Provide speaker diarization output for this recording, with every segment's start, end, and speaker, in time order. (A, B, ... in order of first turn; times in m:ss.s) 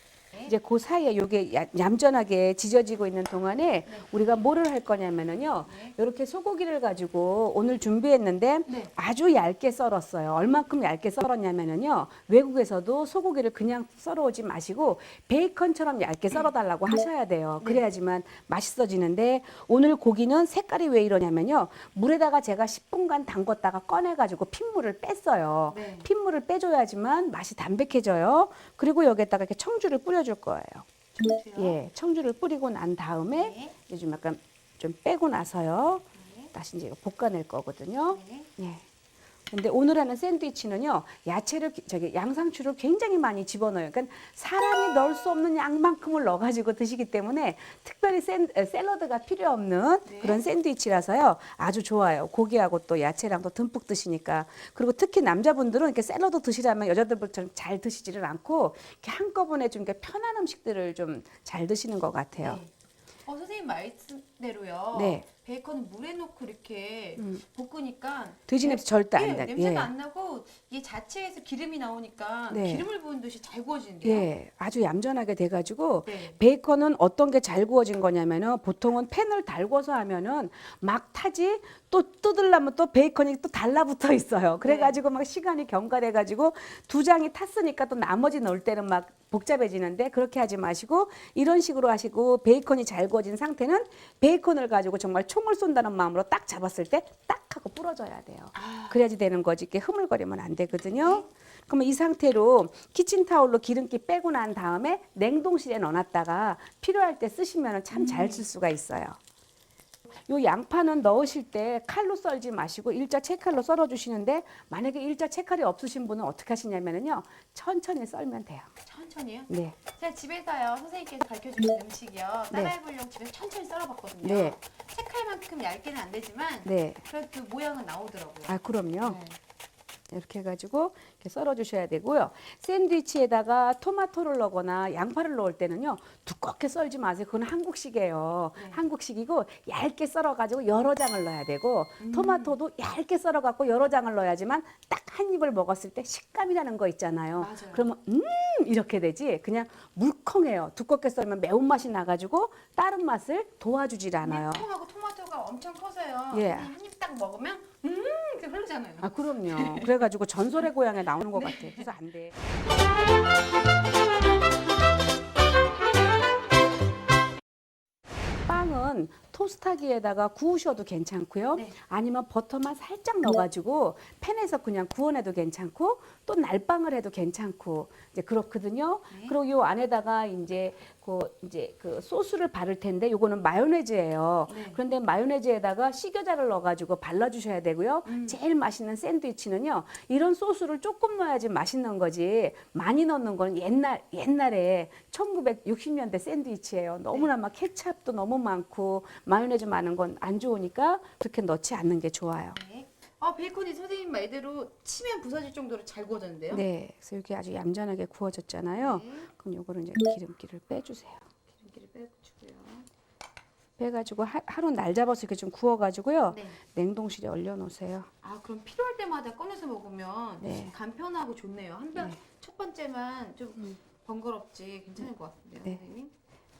0:00.5-0:30.8 A
0:05.7-0:05.9 B
0:25.7-0:26.1 B
0:31.2-0:31.8 B
0:31.6-0:38.8 A
0:33.4-0:33.7 B
0:36.1-0:36.5 B
0:38.1-0:38.5 B
0:39.5-1:02.6 A
0:50.1-0:50.4 B
1:02.4-1:02.7 B
1:03.2-1:14.3 B
1:04.9-1:05.2 A
1:07.2-1:07.4 A
1:08.5-1:09.9 A
1:12.5-1:12.8 A
1:14.0-1:49.2 A
1:16.0-1:16.4 B
1:24.6-1:25.0 B
1:38.5-1:39.0 B
1:40.8-1:41.3 B
1:47.9-1:48.4 B
1:50.3-1:58.7 A
1:58.8-2:09.4 B
1:59.5-1:59.8 A
2:02.5-2:02.7 A
2:04.2-2:04.6 A
2:06.6-2:07.0 A
2:08.4-2:09.2 A
2:10.1-2:34.6 A
2:18.6-2:18.8 B
2:22.0-2:22.5 B
2:27.4-2:27.8 B
2:34.2-2:39.9 B
2:36.3-2:36.7 A
2:39.0-2:42.4 A
2:41.3-2:41.8 B
2:48.5-3:22.6 A
2:59.1-2:59.4 B
3:04.5-3:04.8 B
3:08.0-3:08.4 B
3:22.5-3:26.6 B
3:26.5-3:31.2 A
3:28.8-3:29.3 B
3:31.6-3:32.9 B
3:33.8-3:38.1 A
3:36.3-3:36.6 B
3:38.2-3:46.1 B
3:40.4-3:40.7 A